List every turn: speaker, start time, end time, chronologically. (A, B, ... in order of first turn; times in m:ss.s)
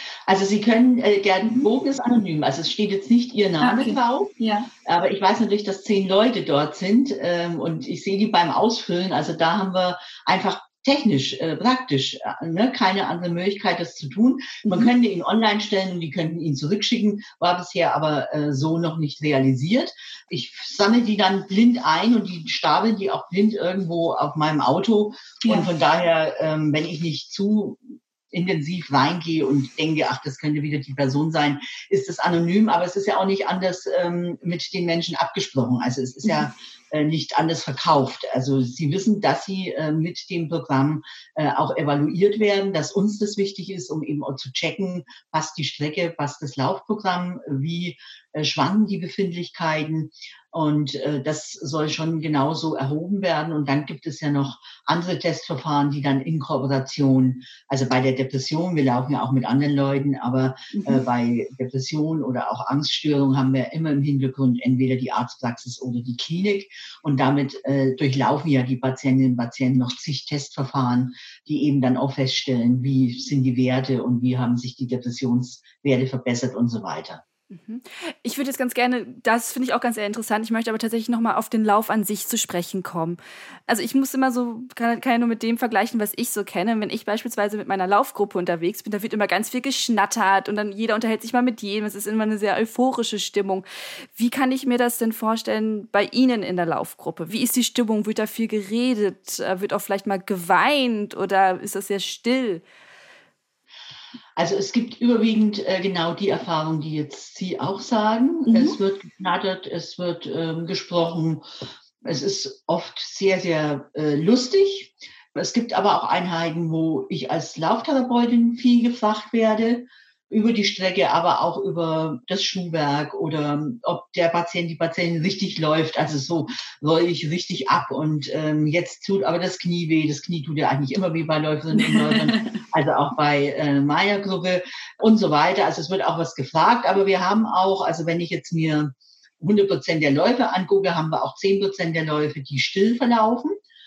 0:00.3-0:04.3 A
0:03.6-0:04.7 B
0:04.8-1:17.2 A
0:14.6-0:14.9 B
0:25.4-0:25.7 B
1:00.7-1:01.0 B
1:17.5-1:42.6 B
1:44.4-1:51.4 A
1:48.5-1:48.8 B
1:52.0-2:23.5 A
2:11.8-2:12.4 B